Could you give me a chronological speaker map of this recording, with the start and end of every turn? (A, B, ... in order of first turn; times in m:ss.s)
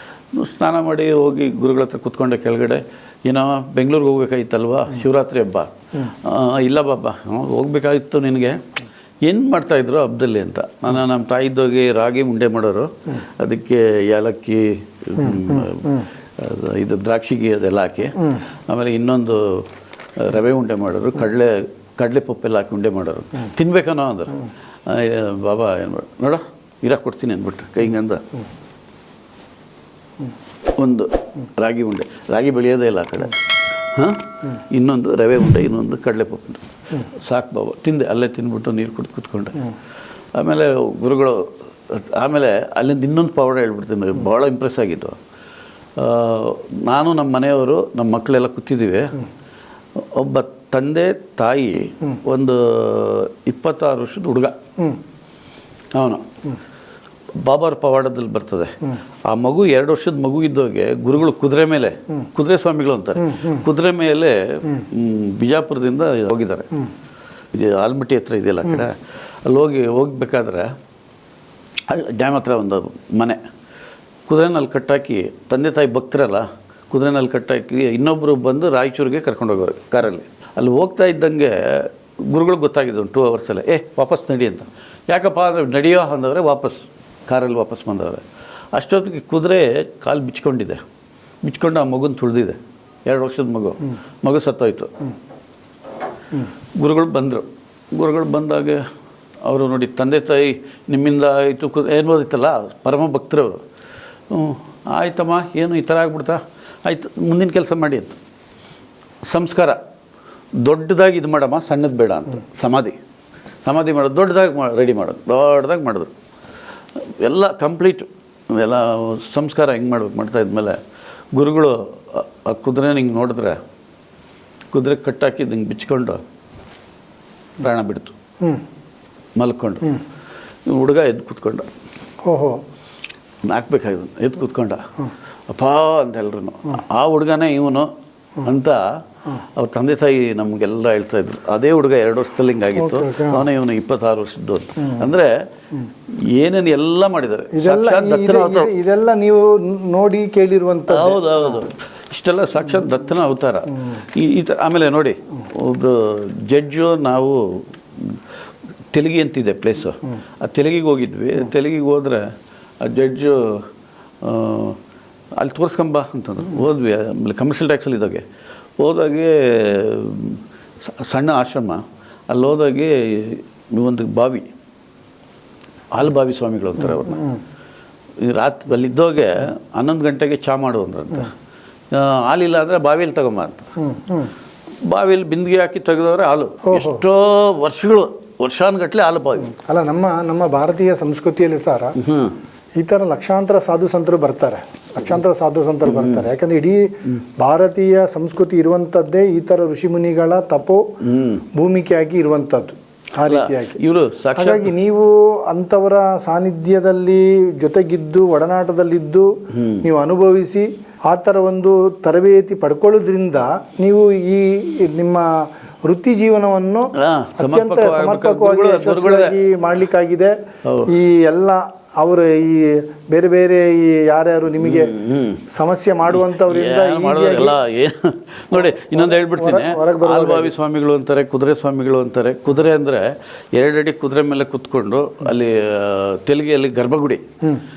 0:00.3-0:08.7 A
0:09.2-0:28.2 A
0:30.8-0:39.7 A
0:40.3-0:45.2 A
0:46.0-0:49.2 A
0:50.0-0:54.6 A
0:55.9-0:56.2 A
0:57.4-1:06.9 A
1:07.5-1:10.7 A
1:11.9-1:13.4 A
1:14.3-1:30.8 A
1:31.4-1:34.9 A
1:36.8-1:38.8 A
1:39.4-1:43.6 A
1:44.3-1:48.2 A
1:49.2-1:49.8 A
1:50.6-1:53.0 A
1:53.6-1:56.1 A
1:57.0-2:00.8 A
2:01.3-2:03.6 A
2:04.7-2:06.2 A
2:07.6-2:08.2 A
2:09.4-2:10.0 A
2:10.6-2:11.7 A
2:12.2-2:12.6 B
2:13.4-2:14.8 A
2:15.5-2:17.9 A
2:18.4-2:25.4 A
2:22.8-2:23.4 B
2:26.1-2:28.7 A
2:27.5-2:31.6 B
2:30.9-2:38.2 A
2:38.9-2:43.7 A
2:44.2-2:44.8 A
2:45.4-2:48.2 A
2:48.8-2:54.5 A
2:55.9-2:57.3 A
2:58.2-3:01.3 A
3:01.9-3:03.7 A
3:03.8-3:04.3 B
3:04.8-3:09.5 A
3:06.6-3:07.0 B
3:09.5-3:12.0 B
3:12.0-3:12.4 A
3:12.8-3:20.8 B
3:15.8-3:16.3 A
3:21.0-3:21.4 A
3:21.5-3:23.8 B
3:23.2-3:24.7 A
3:24.3-3:29.3 B
3:29.5-3:29.9 A
3:29.8-3:45.0 B
3:36.9-3:39.4 A
3:40.6-3:40.9 A
3:44.6-3:45.4 A
3:45.5-3:47.6 B
3:46.1-3:57.2 A
3:48.5-3:50.5 B